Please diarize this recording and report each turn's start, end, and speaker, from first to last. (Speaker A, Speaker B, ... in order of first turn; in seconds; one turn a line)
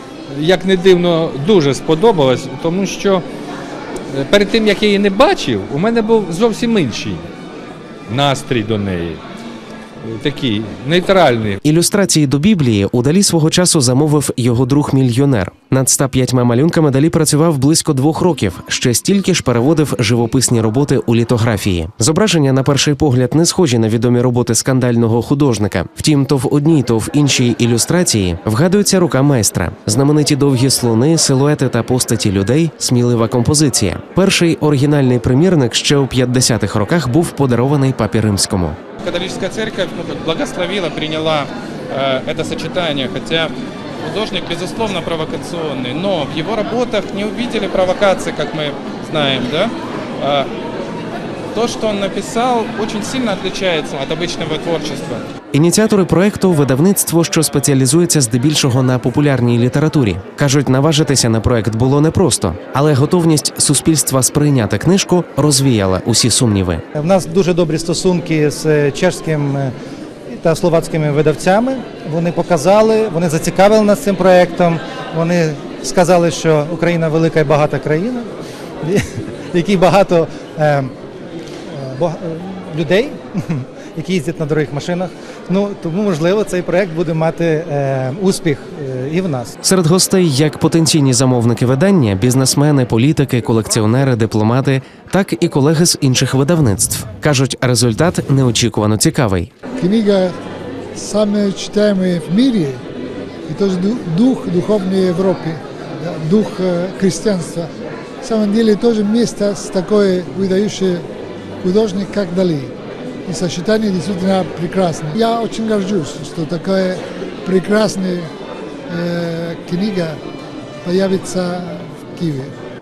Speaker A: 0.3-3.2
Speaker A: 4.1-7.3
Speaker A: 8.1-9.2
Speaker A: 10.0-11.6
Speaker B: 11.6-38.8
Speaker C: 39.0-43.5
Speaker C: 44.0-50.5
Speaker C: 51.5-55.3
Speaker B: 55.5-66.8
Speaker D: 67.0-69.7
Speaker D: 70.3-78.3
Speaker D: 78.8-80.9
Speaker D: 81.7-89.5
Speaker B: 89.6-99.5
Speaker E: 99.8-100.4
Speaker E: 100.9-102.8
Speaker E: 103.5-111.1
Speaker E: 111.6-112.7
Speaker E: 113.2-118.3
Speaker E: 118.9-120.2
Speaker E: 120.8-122.5